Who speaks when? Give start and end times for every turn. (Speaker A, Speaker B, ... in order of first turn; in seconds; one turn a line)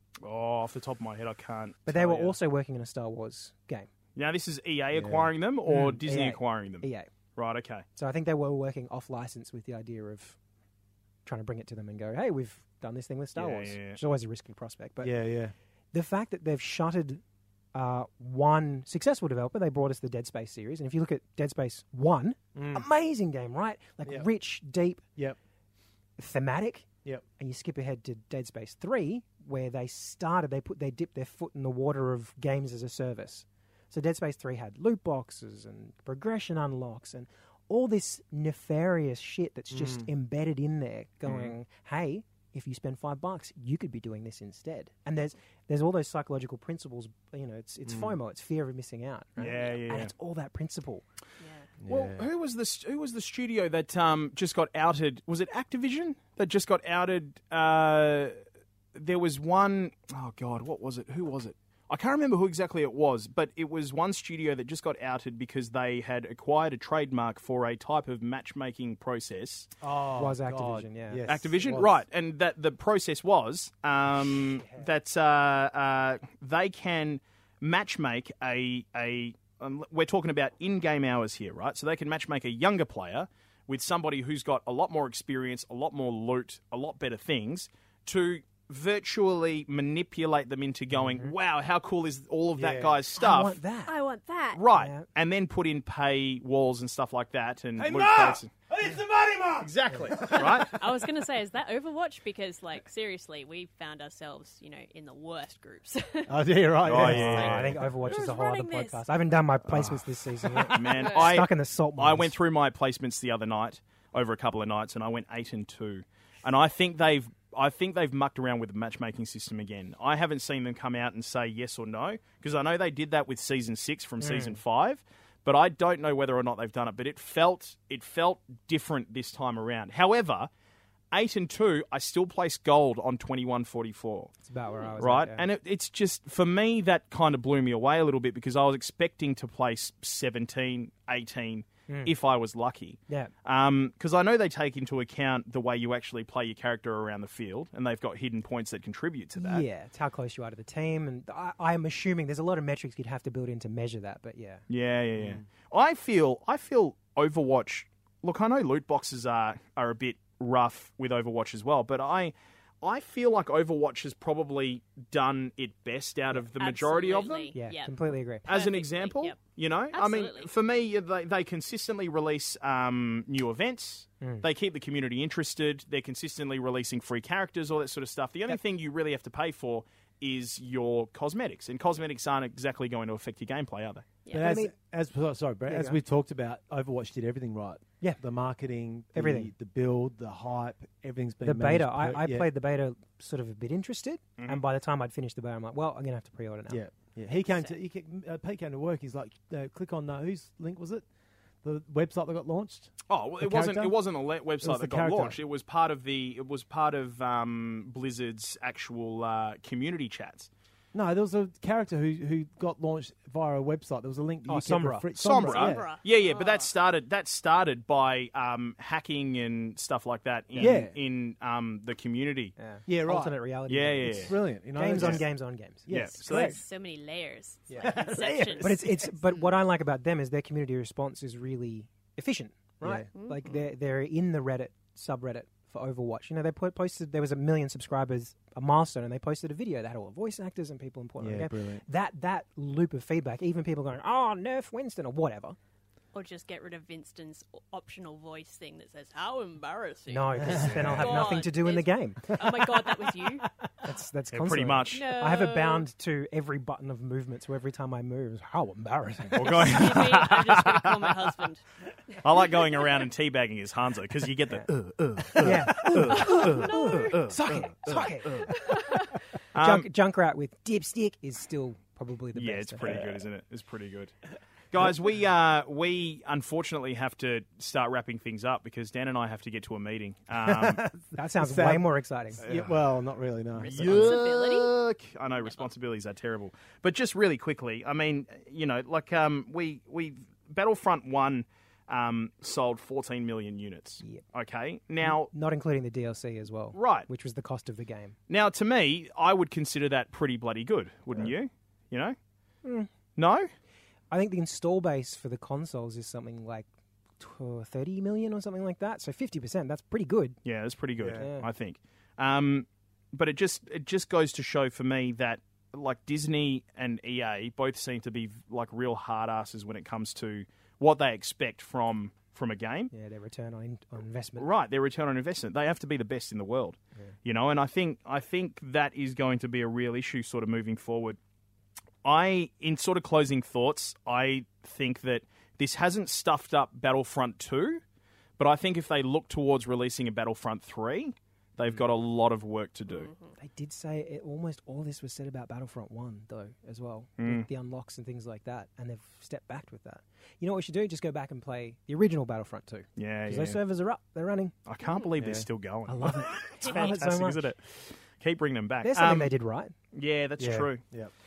Speaker A: 0.2-2.4
Speaker B: 1.9-3.9
Speaker A: 4.2-7.8
Speaker C: 4.9-5.9
Speaker B: 5.7-7.1
Speaker B: 8.0-10.4
Speaker B: 11.2-15.1
Speaker A: 13.4-14.0
Speaker C: 15.0-15.5
Speaker B: 15.9-17.2
Speaker B: 17.7-25.0
Speaker C: 22.6-22.9
Speaker B: 26.2-51.0
Speaker C: 39.7-40.1
Speaker C: 47.9-48.1
Speaker A: 49.4-50.1
Speaker D: 51.4-51.7
Speaker C: 51.8-52.3
Speaker A: 51.9-58.4
Speaker A: 59.0-69.7
Speaker C: 69.8-72.0
Speaker B: 70.2-71.3
Speaker A: 71.3-93.6
Speaker B: 91.1-91.3
Speaker C: 92.5-93.0
Speaker B: 93.2-94.0
Speaker D: 93.9-94.7
Speaker A: 94.5-98.5
Speaker B: 94.7-95.1
Speaker C: 97.8-100.8
Speaker A: 99.6-100.8
Speaker D: 100.4-106.4
Speaker C: 106.3-108.1
Speaker A: 106.8-107.8
Speaker D: 107.0-109.0
Speaker B: 107.0-112.3
Speaker C: 109.8-110.7
Speaker A: 110.7-130.5
Speaker D: 110.9-111.3
Speaker B: 124.2-124.6
Speaker A: 131.1-134.3
Speaker B: 134.4-135.5
Speaker A: 135.0-149.7
Speaker B: 141.9-142.1
Speaker B: 149.4-154.6
Speaker A: 154.7-167.5
Speaker C: 155.2-155.4
Speaker D: 166.6-169.4
Speaker B: 167.6-168.5
Speaker A: 168.5-184.1
Speaker D: 169.9-170.5
Speaker B: 174.2-174.5
Speaker B: 184.3-184.7
Speaker C: 184.3-192.5
Speaker B: 185.7-186.0
Speaker B: 189.1-189.5
Speaker B: 191.4-196.8
Speaker C: 196.7-201.0
Speaker C: 201.6-204.0
Speaker A: 203.1-210.5
Speaker C: 204.6-205.4
Speaker C: 210.9-215.9
Speaker B: 214.5-215.1
Speaker A: 215.2-222.6
Speaker D: 215.4-216.7
Speaker C: 220.6-221.0
Speaker B: 222.6-225.9
Speaker C: 222.9-223.4
Speaker A: 223.7-224.3
Speaker C: 224.0-225.3
Speaker C: 225.8-226.6
Speaker A: 225.9-226.6
Speaker D: 226.2-229.1
Speaker C: 227.7-229.0
Speaker B: 228.6-245.6
Speaker C: 232.8-233.1
Speaker D: 233.2-233.6
Speaker C: 241.2-241.8
Speaker D: 246.1-253.5
Speaker B: 250.1-252.5
Speaker C: 250.5-251.3
Speaker B: 253.8-260.1
Speaker A: 254.3-255.1
Speaker D: 254.9-255.9
Speaker A: 259.3-261.2
Speaker D: 259.5-263.0
Speaker A: 262.2-268.5
Speaker C: 265.3-266.2
Speaker B: 265.4-268.8
Speaker D: 266.0-267.3
Speaker D: 268.6-269.1
Speaker A: 269.5-269.9
Speaker B: 269.6-273.1
Speaker A: 272.4-274.1
Speaker A: 274.7-280.8
Speaker C: 280.4-284.1
Speaker B: 281.1-282.4
Speaker A: 282.4-282.8
Speaker A: 283.6-295.3
Speaker D: 283.6-284.7
Speaker D: 285.4-285.7
Speaker B: 295.0-298.2
Speaker A: 296.7-297.1
Speaker A: 298.3-302.2
Speaker B: 302.6-302.9
Speaker A: 303.2-303.5
Speaker B: 304.1-306.7
Speaker B: 307.2-310.4
Speaker A: 310.4-322.9
Speaker C: 311.0-311.2
Speaker B: 311.2-311.5
Speaker B: 322.9-324.5
Speaker A: 324.4-331.2
Speaker A: 332.0-337.8
Speaker A: 338.4-343.1
Speaker D: 342.9-343.3
Speaker B: 343.4-354.6
Speaker A: 347.2-347.5
Speaker A: 353.0-353.6
Speaker A: 354.7-359.3
Speaker C: 355.2-355.5
Speaker B: 355.9-357.5
Speaker D: 356.6-356.9
Speaker B: 358.8-359.7
Speaker A: 359.9-360.8
Speaker C: 360.4-361.1